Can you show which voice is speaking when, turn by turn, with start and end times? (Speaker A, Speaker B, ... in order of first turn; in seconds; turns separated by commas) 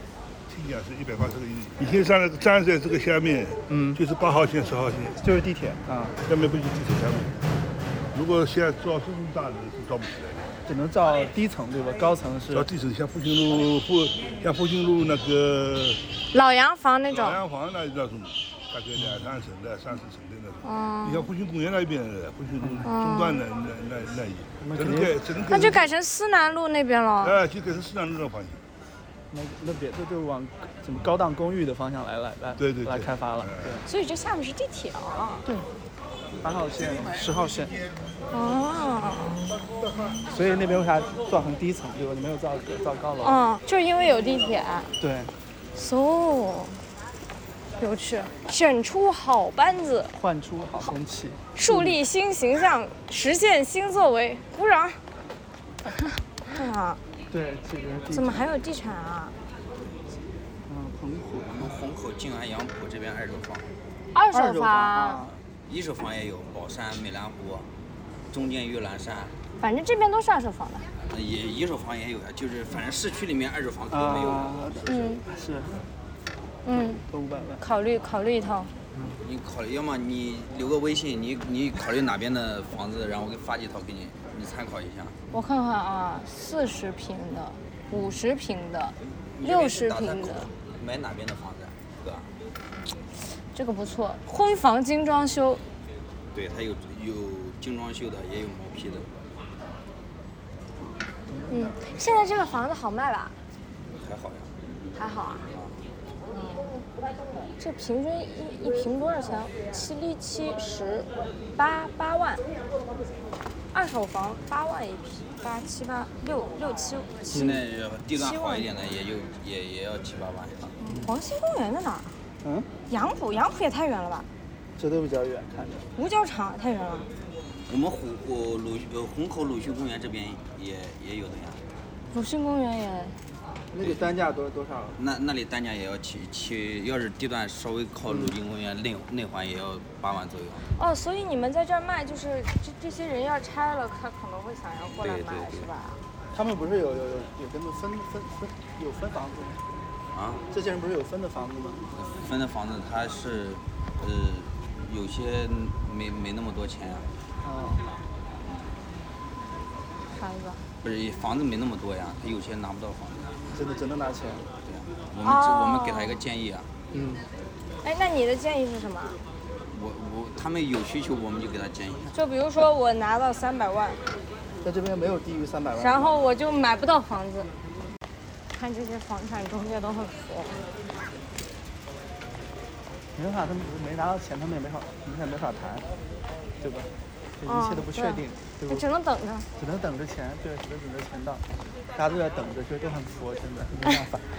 Speaker A: 0.5-5.2, Speaker B: 3.7-4.0, Speaker B: 5.2-6.2, Speaker A: 6.2-7.4, Speaker A: 8.1-10.4, Speaker B: 10.7-12.7, Speaker A: 12.5-16.0, Speaker C: 16.3-17.4, Speaker A: 17.1-25.8, Speaker B: 18.9-19.3, Speaker C: 20.6-21.3, Speaker B: 22.6-22.9, Speaker C: 22.8-23.4, Speaker B: 24.6-25.8, Speaker C: 25.5-27.4, Speaker A: 27.2-28.6, Speaker B: 29.3-33.8, Speaker A: 32.6-33.7, Speaker C: 33.9-35.4, Speaker B: 36.4-37.8, Speaker C: 38.3-39.6, Speaker B: 40.2-43.4, Speaker C: 43.2-44.9, Speaker B: 45.0-45.3, Speaker C: 45.7-46.8, Speaker C: 47.8-50.1, Speaker B: 50.1-52.0, Speaker C: 51.5-55.0, Speaker C: 56.5-57.0, Speaker B: 57.3-58.5, Speaker C: 58.1-59.4, Speaker B: 60.7-61.7, Speaker D: 61.5-63.7, Speaker C: 64.1-65.2, Speaker B: 64.3-65.4, Speaker D: 65.7-67.7, Speaker D: 68.3-69.3, Speaker C: 69.6-70.9, Speaker D: 71.1-75.1, Speaker B: 73.9-75.8, Speaker C: 74.8-75.2, Speaker C: 76.7-77.0, Speaker B: 76.9-77.6, Speaker C: 77.6-78.7, Speaker B: 78.9-79.2, Speaker D: 79.2-85.2, Speaker C: 85.3-90.5, Speaker D: 89.0-92.3, Speaker C: 93.5-95.6, Speaker D: 96.3-99.1, Speaker B: 101.3-101.8, Speaker C: 101.5-103.3, Speaker D: 104.0-104.5, Speaker C: 105.0-105.5, Speaker D: 105.5-105.8, Speaker C: 106.3-106.8, Speaker C: 107.5-112.4, Speaker C: 113.7-117.3, Speaker B: 117.3-117.6, Speaker D: 117.3-120.7, Speaker C: 118.1-118.7, Speaker C: 120.8-122.1, Speaker B: 122.4-122.7, Speaker C: 122.9-124.3, Speaker B: 124.8-125.8, Speaker C: 125.9-127.1, Speaker D: 127.7-131.6, Speaker C: 132.1-133.2, Speaker B: 133.7-135.0, Speaker D: 133.8-134.1, Speaker D: 134.9-140.6, Speaker B: 138.1-138.3, Speaker C: 140.8-146.0, Speaker D: 145.0-145.7, Speaker B: 146.3-149.6, Speaker D: 150.1-150.4, Speaker B: 150.5-151.8, Speaker D: 151.9-157.1, Speaker B: 157.4-157.9, Speaker C: 160.1-160.6, Speaker D: 160.8-163.4, Speaker B: 163.5-164.5, Speaker D: 164.6-166.7, Speaker C: 165.2-166.2, Speaker B: 166.9-167.2, Speaker C: 167.8-169.2, Speaker D: 169.7-172.1, Speaker C: 172.1-174.0, Speaker B: 174.6-176.1, Speaker C: 175.8-177.5, Speaker C: 178.5-180.6, Speaker B: 183.1-185.9, Speaker B: 186.6-188.8, Speaker C: 187.4-189.4, Speaker B: 189.6-194.2